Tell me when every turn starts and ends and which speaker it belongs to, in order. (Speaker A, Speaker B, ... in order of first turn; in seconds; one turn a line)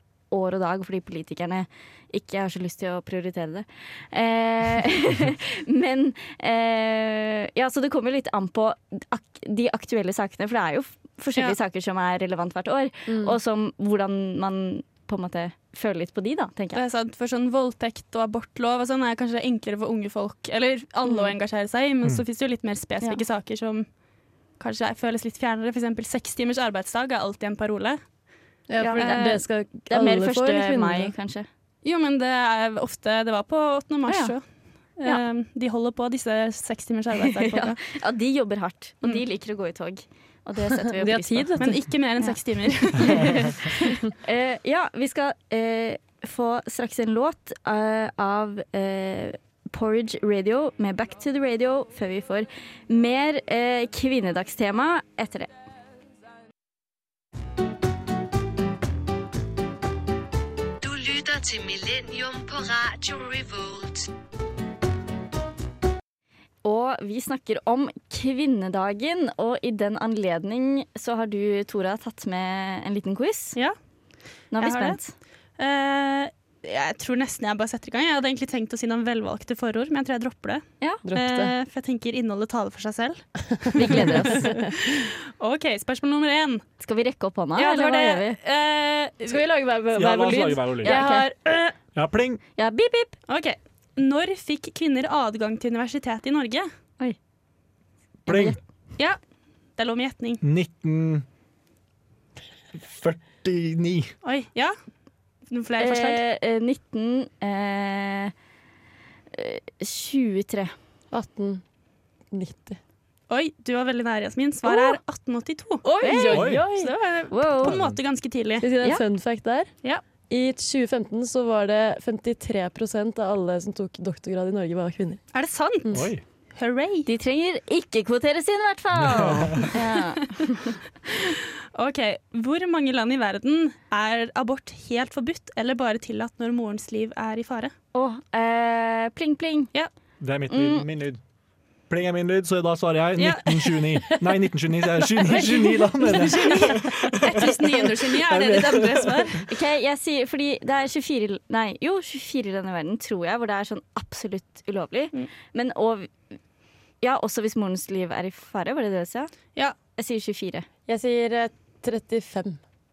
Speaker A: 0.3-16.8
Speaker B: 13.1-13.3
Speaker C: 16.7-28.3
Speaker B: 28.7-31.1
Speaker A: 28.8-31.4
Speaker C: 28.9-29.4
Speaker C: 31.8-37.8
Speaker A: 34.1-35.2
Speaker A: 37.4-55.5
Speaker B: 40.9-41.9
Speaker C: 41.6-43.4
Speaker D: 60.8-64.1
Speaker A: 66.6-73.6
Speaker C: 74.3-86.7
Speaker A: 74.5-75.1
Speaker B: 81.0-81.5
Speaker A: 83.7-84.6
Speaker A: 86.8-88.4
Speaker C: 87.5-89.4
Speaker B: 89.3-91.8
Speaker E: 89.9-91.0
Speaker A: 90.8-91.2
Speaker E: 91.9-92.4
Speaker A: 92.5-93.1
Speaker C: 93.3-96.7
Speaker E: 98.2-98.6
Speaker A: 98.2-98.6
Speaker C: 99.0-100.4
Speaker E: 100.4-101.2
Speaker E: 102.7-104.1
Speaker C: 104.2-104.9
Speaker C: 105.5-106.2
Speaker A: 105.8-108.3
Speaker A: 109.3-110.7
Speaker B: 111.1-111.6
Speaker B: 112.3-112.8
Speaker C: 113.3-118.7
Speaker A: 114.6-115.0
Speaker B: 115.8-116.9
Speaker A: 116.0-116.7
Speaker E: 116.3-116.6
Speaker A: 117.3-117.8
Speaker E: 117.6-118.0
Speaker B: 118.6-125.3
Speaker C: 125.3-127.1
Speaker B: 125.8-126.1
Speaker E: 125.9-126.2
Speaker A: 127.0-130.7
Speaker E: 128.9-129.6
Speaker C: 131.7-137.7
Speaker A: 137.9-139.7
Speaker E: 140.2-141.2
Speaker A: 140.5-140.8
Speaker E: 141.9-149.3
Speaker C: 143.2-143.8
Speaker B: 144.2-144.5
Speaker B: 145.0-147.3
Speaker C: 146.0-149.4
Speaker A: 149.5-156.2
Speaker A: 157.0-160.7
Speaker B: 160.9-162.6